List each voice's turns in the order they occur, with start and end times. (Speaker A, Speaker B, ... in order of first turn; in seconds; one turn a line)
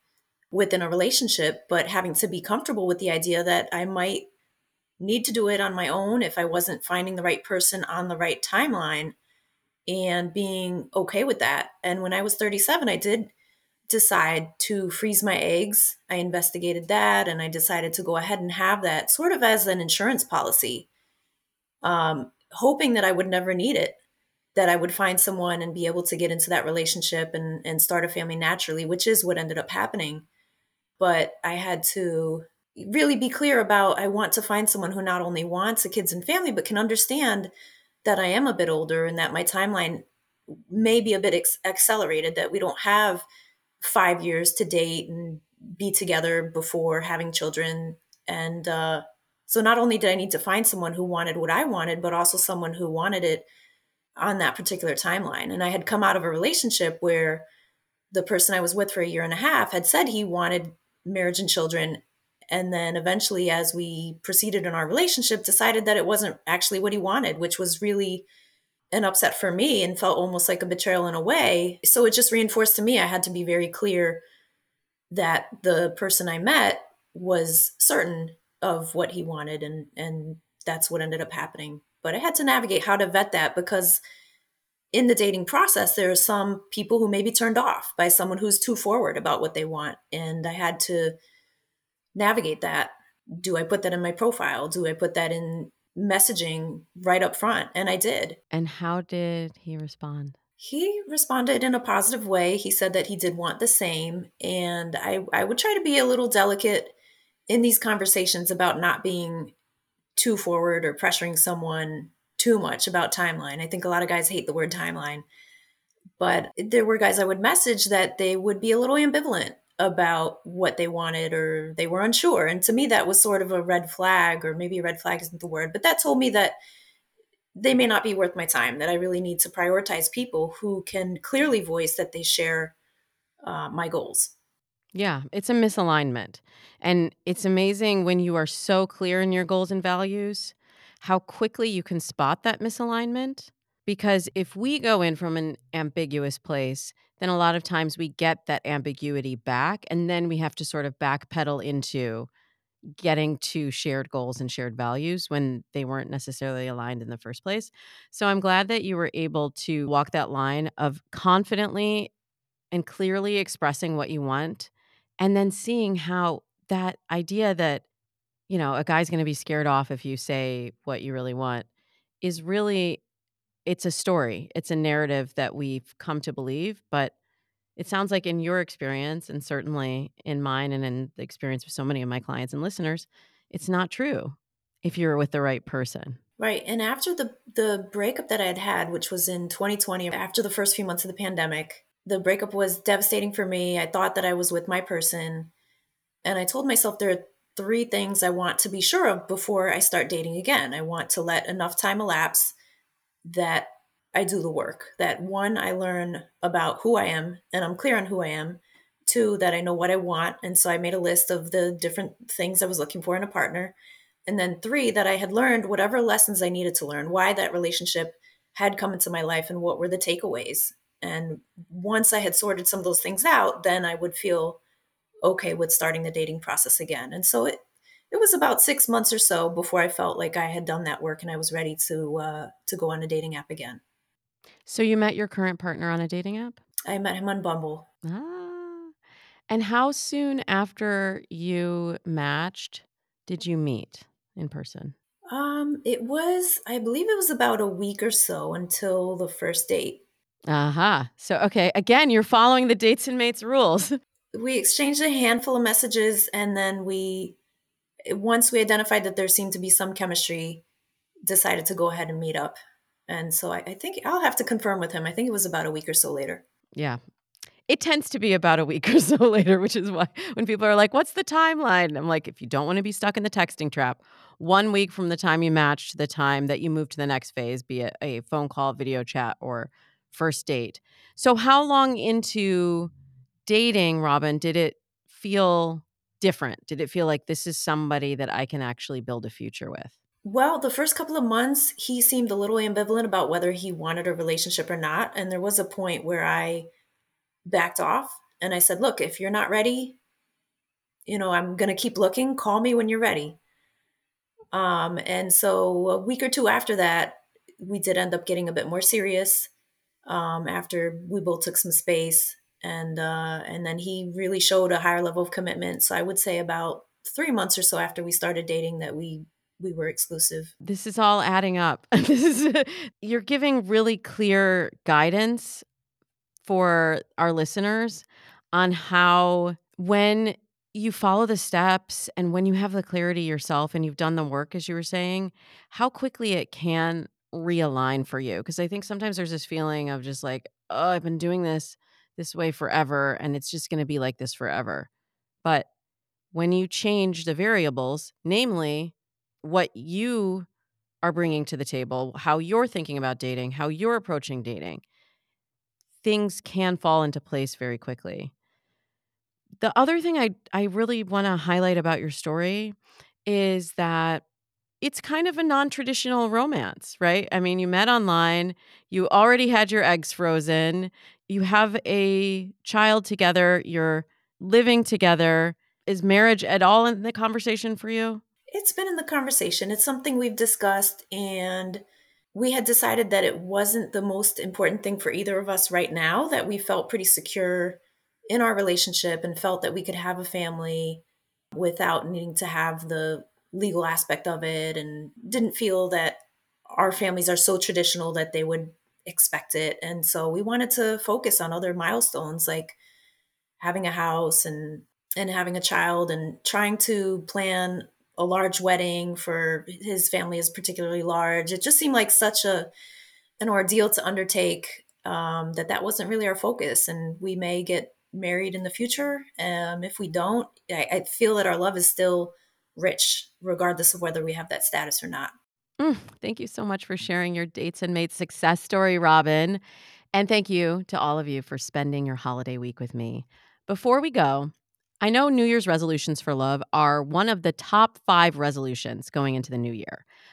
Speaker A: 0.5-4.2
Speaker A: 5.0-9.2
Speaker A: 9.9-13.3
Speaker A: 13.9-20.9
Speaker A: 21.8-24.0
Speaker A: 24.6-30.3
Speaker A: 31.0-37.5
Speaker A: 38.0-40.0
Speaker A: 40.7-43.3
Speaker A: 43.8-53.5
Speaker A: 54.2-57.5
Speaker A: 58.1-68.3
Speaker A: 68.9-74.2
Speaker A: 75.1-84.0
Speaker A: 84.9-91.2
Speaker A: 92.2-98.4
Speaker B: 98.5-100.3
Speaker A: 100.6-107.0
Speaker A: 107.5-109.5
Speaker A: 110.2-115.2
Speaker A: 116.2-126.6
Speaker A: 127.5-132.8
Speaker A: 133.4-134.3
Speaker B: 134.9-152.3
Speaker B: 153.0-162.1
Speaker B: 162.7-167.8
Speaker B: 168.5-171.7
Speaker B: 172.2-173.0
Speaker B: 173.7-177.1
Speaker B: 177.8-186.2
Speaker A: 186.4-195.5
Speaker A: 196.2-202.6
Speaker A: 203.2-224.6
Speaker A: 225.2-227.6
Speaker A: 228.1-233.8
Speaker B: 234.7-236.6
Speaker A: 236.9-237.9
Speaker B: 238.1-238.9
Speaker B: 239.5-244.9
Speaker A: 245.3-250.0
Speaker B: 250.5-254.0
Speaker A: 254.3-257.4
Speaker A: 258.1-260.6
Speaker A: 261.3-262.6
Speaker A: 263.1-266.4
Speaker B: 267.7-282.9
Speaker B: 283.5-289.9
Speaker A: 290.2-296.7
Speaker A: 297.4-300.0
Speaker A: 301.1-303.4
Speaker A: 304.5-309.5
Speaker A: 310.1-320.5
Speaker B: 320.6-325.6
Speaker B: 326.4-344.9
Speaker B: 346.3-350.5
Speaker B: 351.0-354.8
Speaker B: 356.0-358.3
Speaker B: 359.6-362.8
Speaker B: 363.3-364.2
Speaker B: 364.8-378.2
Speaker A: 378.5-381.8
Speaker A: 382.3-402.8
Speaker A: 403.6-412.7
Speaker A: 413.4-425.3
Speaker B: 425.8-429.6
Speaker B: 430.1-440.1